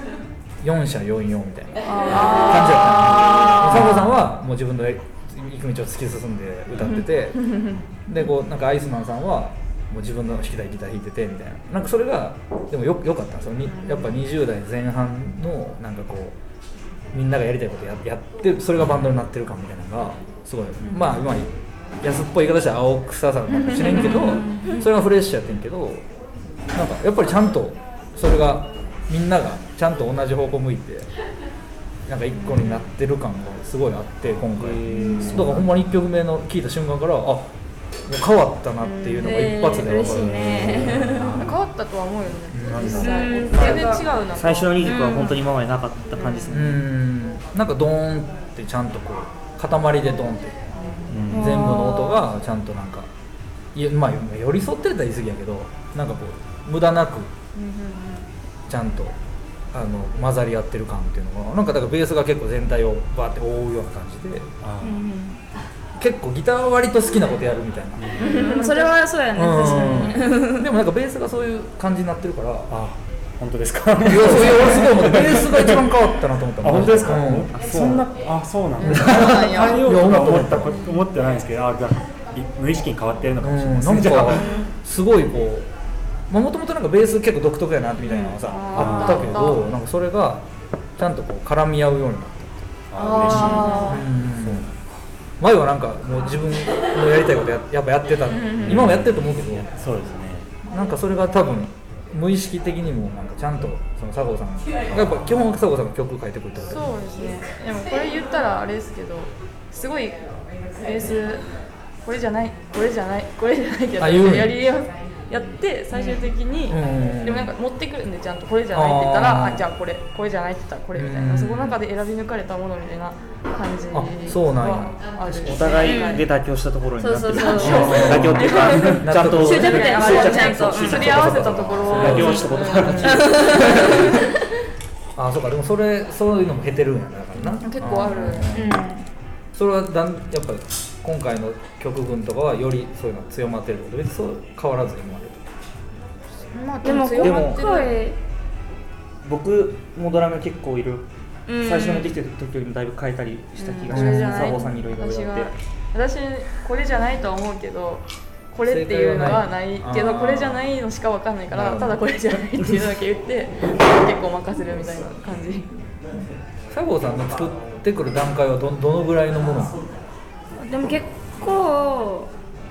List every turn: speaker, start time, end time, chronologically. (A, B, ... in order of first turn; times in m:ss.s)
0:00.6-0:16.4 A
0:01.9-0:04.0 B
0:02.0-0:03.9 C
0:07.5-0:07.7 B
0:13.7-0:14.1 B
0:17.1-0:21.5 A
0:22.0-0:26.0 A
0:23.5-0:24.8 B
0:23.8-0:24.8 C
0:26.7-0:31.1 A
0:32.1-0:37.5 A
0:32.3-0:32.8 B
0:34.5-0:35.7 D
0:35.0-0:35.3 C
0:35.0-0:35.3 B
0:38.1-0:41.6 A
0:38.8-0:39.3 B
0:39.2-0:41.4 C
0:40.4-0:41.5 D
0:41.3-0:44.8 B
0:42.5-0:43.2 A
0:42.8-0:44.1 C
0:43.5-0:46.8 E
0:44.8-0:45.4 C
0:46.1-0:46.6 B
0:46.5-0:50.6 A
0:50.8-0:51.1 B
0:51.1-0:51.5 D
0:51.3-0:53.1 A
0:51.3-0:52.2 C
0:53.7-0:57.3 A
0:57.5-0:58.3 B
0:58.7-0:59.2 A
0:59.7-1:04.5 A
1:04.6-1:05.0 D
1:04.8-1:05.4 C
1:06.0-1:08.1 A
1:08.0-1:08.4 D
1:08.2-1:09.0 B
1:08.2-1:10.6 C
1:09.3-1:12.7 A
1:09.6-1:10.0 B
1:12.7-1:16.0 D
1:14.0-1:17.6 A
1:16.6-1:24.5 D
1:18.8-1:19.9 B
1:18.8-1:20.8 A
1:20.6-1:21.0 B
1:23.4-1:25.7 A
1:24.3-1:24.6 B
1:26.3-1:30.4 A
1:28.0-1:29.6 B
1:28.7-1:29.2 D
1:31.0-1:34.7 A
1:32.9-1:34.7 D
1:33.0-1:34.0 B
1:33.4-1:33.8 C
1:35.4-1:39.7 A
1:38.3-1:38.9 B
1:38.6-1:40.5 D
1:40.6-1:46.9 A
1:46.6-1:50.2 B
1:50.8-1:51.4 B
1:52.0-2:06.2 B
1:54.0-1:54.6 A
1:55.9-1:56.2 C
1:56.7-1:57.5 A
1:58.7-1:59.6 A
2:00.9-2:01.8 A
2:03.9-2:04.9 A
2:05.3-2:14.2 E
2:05.8-2:06.2 C
2:07.0-2:11.4 C
2:07.4-2:14.1 B
2:07.6-2:14.0 A
2:12.0-2:14.1 C
2:15.2-2:18.8 A
2:17.5-2:18.5 B
2:18.5-2:19.0 C
2:19.5-2:25.5 A
2:26.5-2:27.9 B
2:26.8-2:28.2 C
2:27.2-2:27.6 E
2:29.2-2:31.1 E
2:31.5-2:32.1 C
2:31.6-2:35.5 E
2:33.6-2:45.7 B
2:33.9-2:34.6 A
2:38.6-2:40.6 A
2:41.5-2:42.0 A
2:46.7-2:49.8 A
2:50.6-2:52.3 C